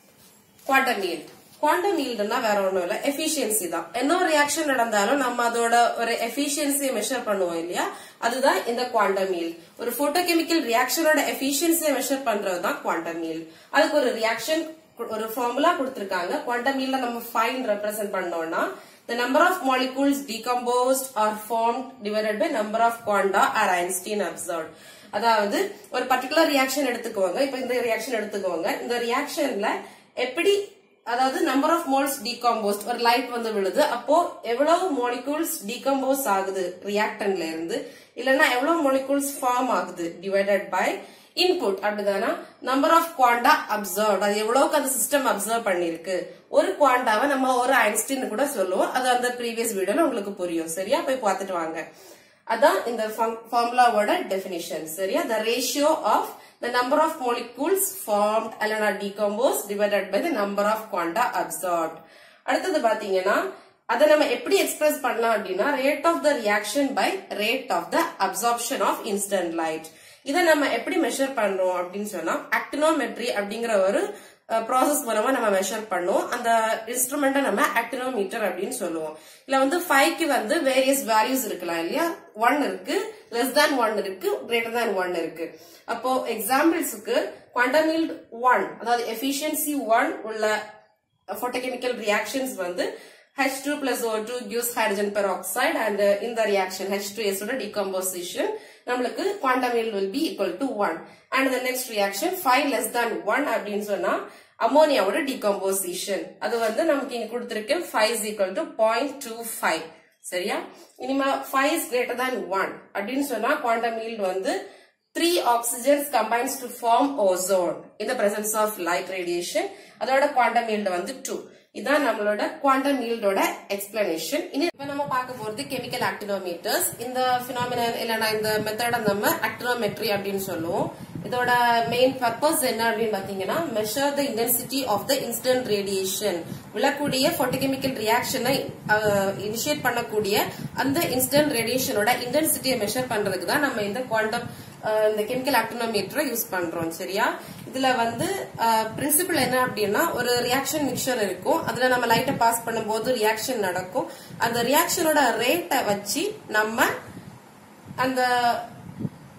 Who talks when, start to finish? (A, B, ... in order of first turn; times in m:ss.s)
0:00.7-0:51.8 A
0:52.5-1:30.6 A
1:31.3-1:54.6 A
1:55.1-2:36.9 A
2:38.0-2:38.7 A